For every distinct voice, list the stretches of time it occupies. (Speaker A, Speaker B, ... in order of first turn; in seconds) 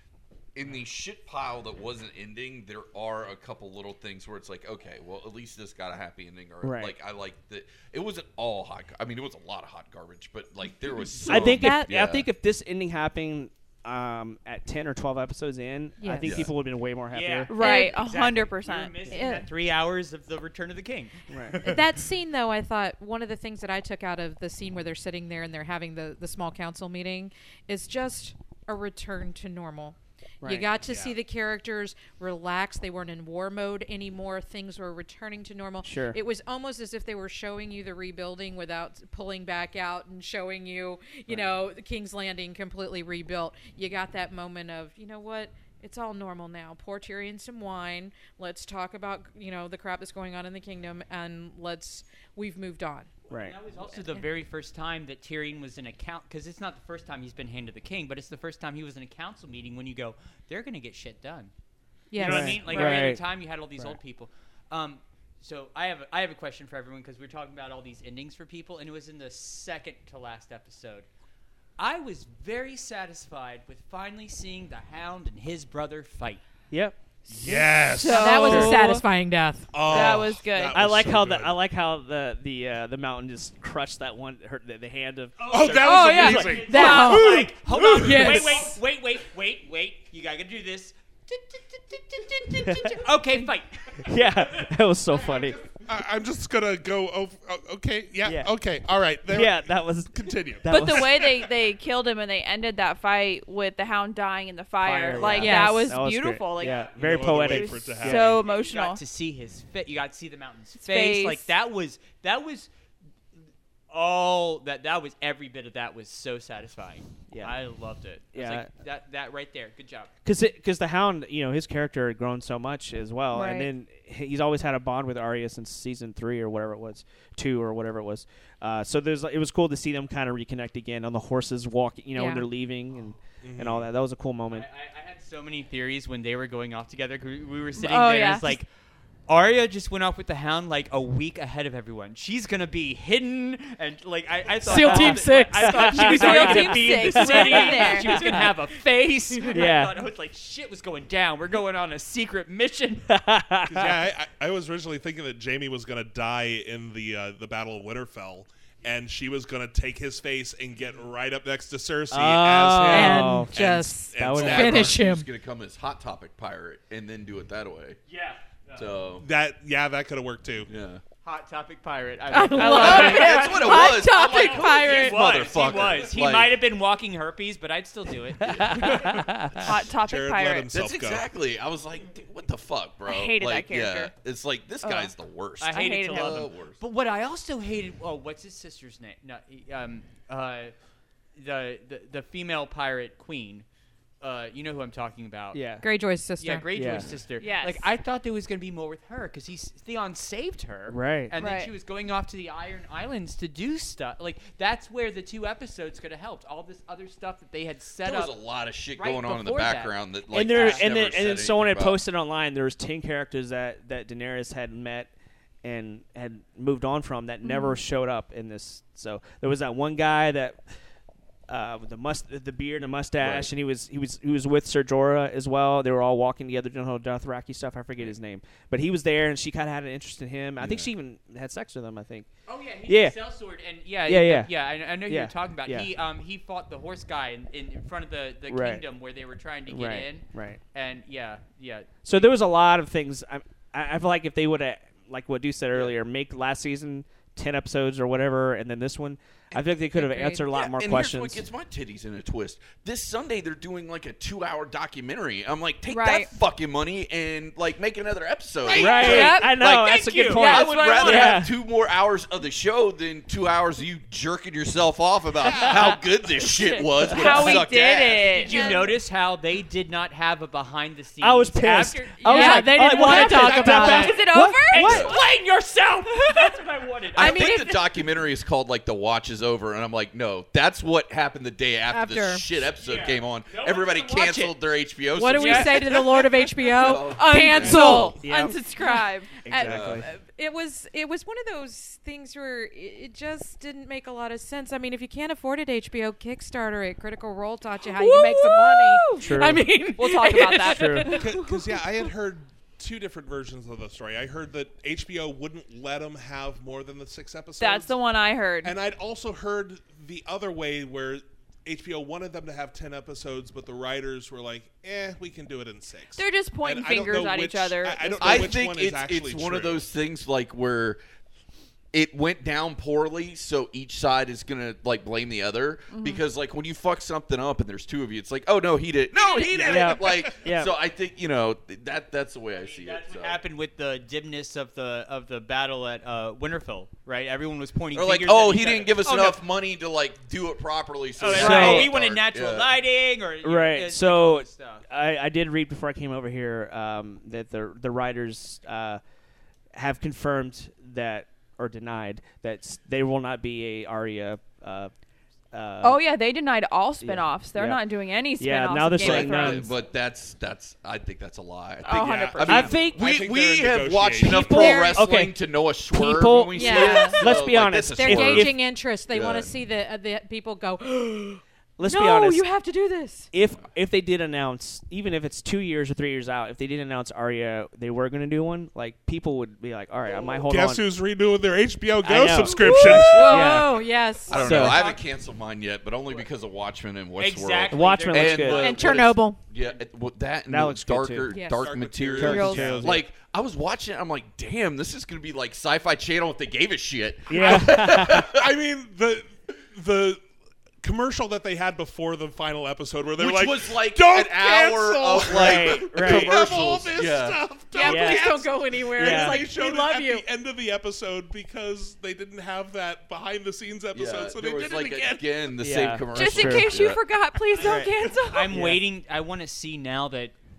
Speaker A: 0.6-12.3, 16.2-16.5, 164.4-168.0, 168.8-169.3, 170.7-171.0, 172.7-176.6, 180.7-186.8, 208.0-212.0, 223.2-223.5, 230.6-230.9, 249.5-268.4, 274.9-275.1, 277.1-286.0, 286.8-288.0, 289.6-290.1, 318.2-321.0, 321.9-333.4, 337.9-342.7, 359.0-369.5, 384.3-398.4, 403.2-407.4, 413.9-417.0
Speaker B: 6.6-7.0, 11.3-17.5, 21.3-21.6, 30.4-30.7, 35.8-36.2, 53.3-53.6, 62.2-63.2, 76.7-77.5, 80.7-86.6, 92.6-93.1, 94.0-95.6, 98.2-98.5, 99.3-101.2, 104.8-108.4, 117.3-117.6, 118.3-118.7, 120.2-134.7, 144.7-148.5, 149.5-150.0, 153.1-154.0, 162.1-163.6, 164.1-164.9, 178.4-179.8, 195.5-195.9, 196.7-197.2, 200.9-201.3, 210.3-215.1, 215.6-220.6, 221.5-232.3, 232.9-233.2, 234.1-234.5, 235.1-235.9, 238.5-238.8, 239.7-240.6, 242.0-251.4, 258.7-261.5, 267.1-267.4, 271.2-275.1, 288.2-288.6, 289.4-290.1, 299.2-299.6, 300.7-301.1, 329.6-330.7, 341.2-341.9, 343.4-349.0, 349.7-354.9, 355.5-356.0, 357.0-357.8, 358.4-359.7, 362.4-363.1, 364.3-365.4, 365.9-368.6, 371.8-372.4, 373.3-380.9, 382.0-383.8, 384.4-384.8, 387.7-388.7, 390.5-391.3, 392.2-393.0, 397.3-398.3, 405.3-406.3, 407.8-408.3, 409.0-409.5, 415.6-416.8, 417.6-417.9, 418.5-418.8
Speaker C: 11.3-11.9, 16.0-16.4, 17.6-17.9, 21.6-53.1, 54.0-54.3, 62.1-63.1, 78.0-80.0, 86.5-88.8, 105.2-105.9, 132.2-132.5, 144.6-146.5, 162.8-165.3, 172.3-173.5, 195.8-196.7, 272.2-274.3, 277.2-277.7, 281.9-282.5, 285.1-288.2, 288.8-301.6, 364.5-365.0, 366.5-367.2, 367.8-371.4, 382.6-384.7, 388.6-389.4, 391.3-391.7, 407.8-410.3
Speaker D: 17.1-21.8, 53.3-61.5, 62.2-71.1, 71.8-76.4, 85.4-95.7, 106.6-107.2, 108.4-112.7, 113.9-120.1, 134.5-138.7, 139.3-153.1, 168.1-168.9, 171.2-179.0, 185.6-190.7, 191.3-193.7, 194.2-195.6, 196.4-208.4, 209.0-210.9, 232.5-242.1, 258.9-260.6, 268.2-272.2, 273.0-273.8, 274.7-277.6, 282.8-284.6, 285.4-286.3, 332.5-339.4, 341.2-344.8, 384.3-385.1, 387.2-388.9, 417.5-420.4
Speaker E: 17.5-19.5, 77.9-79.0, 79.8-80.8, 85.8-87.3, 100.7-109.0, 110.8-111.5, 123.3-123.7, 137.8-138.6, 146.0-148.4, 172.3-175.2, 179.6-180.7, 183.1-184.1, 184.8-185.1, 185.7-186.5, 197.4-197.9, 201.4-201.7, 217.4-217.8, 255.9-256.3, 258.7-259.6, 260.3-261.4, 266.5-269.0, 272.2-275.2, 276.1-276.6, 277.2-277.6, 287.0-289.4, 297.8-301.4, 307.6-308.8, 316.2-318.5, 325.9-326.2, 355.8-359.8, 361.8-362.8, 366.7-367.2, 371.9-373.3, 388.6-389.0, 392.2-392.8, 407.8-408.4, 416.1-418.6
Speaker F: 77.3-78.7, 79.7-81.6, 85.5-88.4, 95.9-101.5, 106.9-108.4, 133.4-133.9, 153.7-165.0, 169.2-170.7, 179.1-181.2, 265.4-265.8, 287.6-288.0, 301.2-307.9, 308.6-319.9, 329.4-330.2, 361.9-364.8, 380.5-383.5, 391.6-393.1, 397.4-400.2, 400.8-415.3